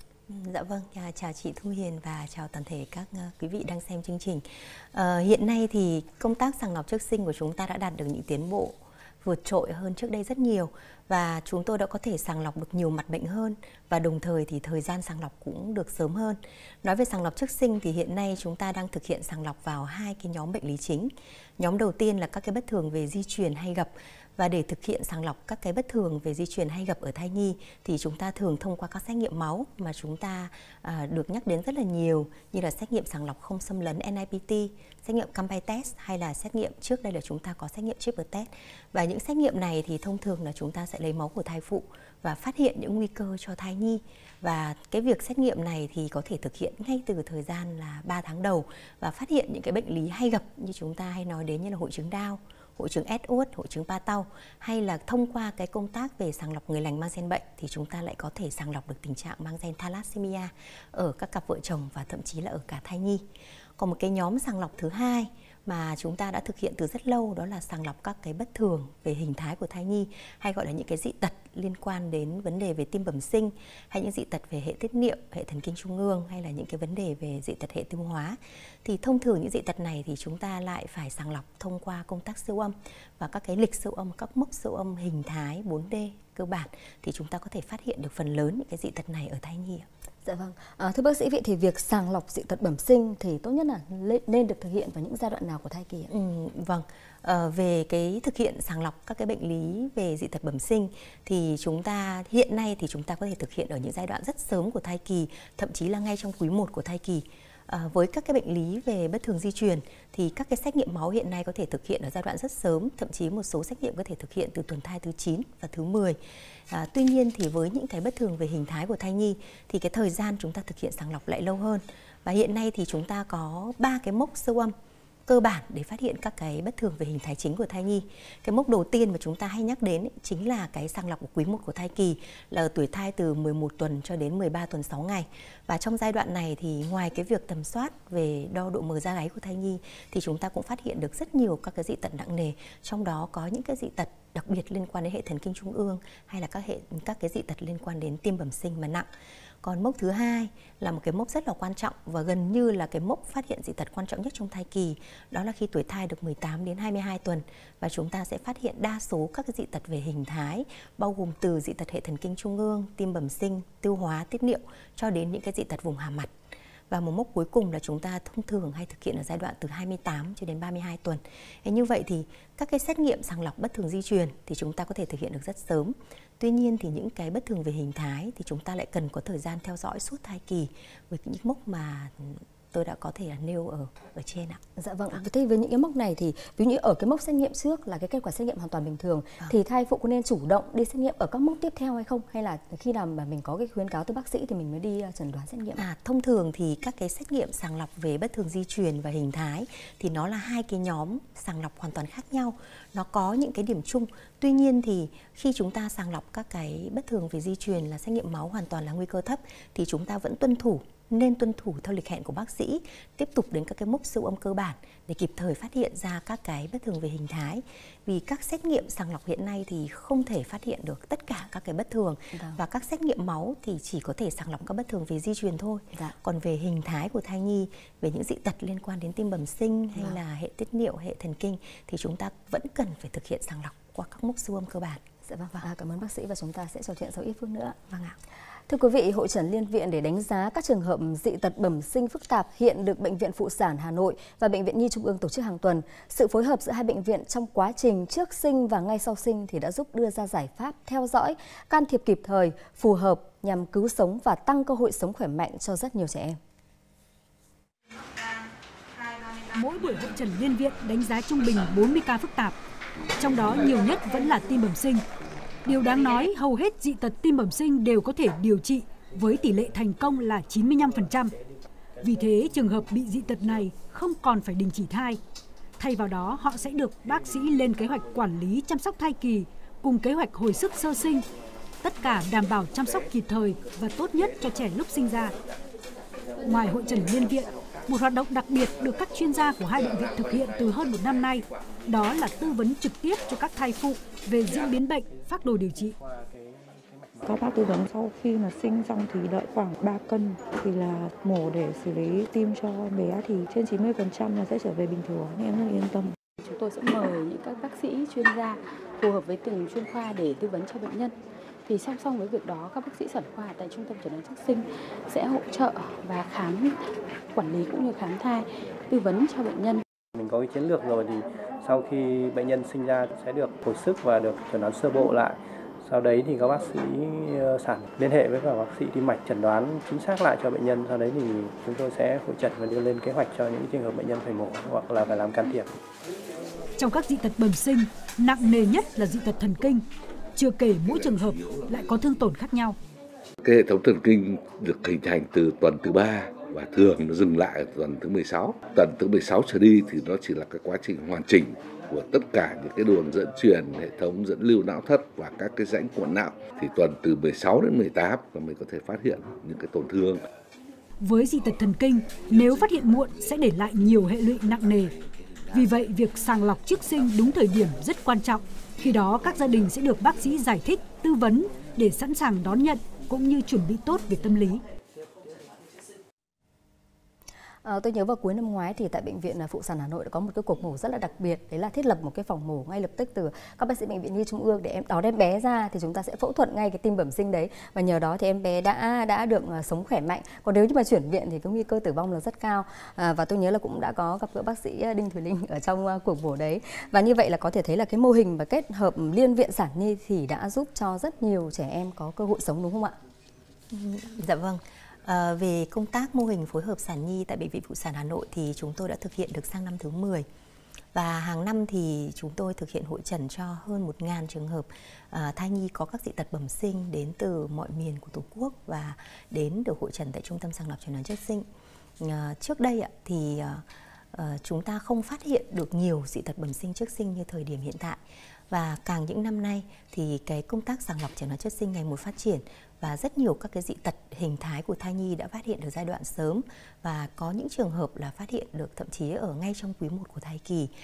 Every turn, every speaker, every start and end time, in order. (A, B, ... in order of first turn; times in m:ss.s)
0:00.3-1:03.2 A
1:03.8-1:29.8 A
1:30.2-1:36.1 B
1:36.1-1:56.2 A
1:56.7-2:04.7 A
2:05.3-2:29.1 A
2:29.6-2:46.3 A
2:46.9-3:04.6 A
3:04.8-3:15.8 B
3:15.8-3:55.0 A
3:42.3-3:42.6 B
3:55.3-3:57.8 B
3:57.9-3:58.2 A
3:58.7-4:16.4 B
4:19.5-4:22.6 C
4:23.2-4:25.0 C
4:25.6-4:31.3 C
4:32.0-4:35.2 C
4:35.8-4:41.2 C
4:41.8-4:45.3 C
4:46.4-4:55.9 C
4:55.9-4:57.3 D
4:57.2-5:06.2 E
5:06.4-5:16.8 F
5:17.3-5:19.8 F
5:20.1-5:35.7 D
5:36.8-5:39.8 C
5:40.4-5:42.8 C
5:43.4-6:00.2 G
6:01.0-6:04.9 C
6:05.5-6:14.6 C
6:17.6-6:43.0 B
6:43.7-6:50.2 A
6:50.9-7:01.4 A
7:02.0-7:08.0 A
7:08.5-7:20.7 A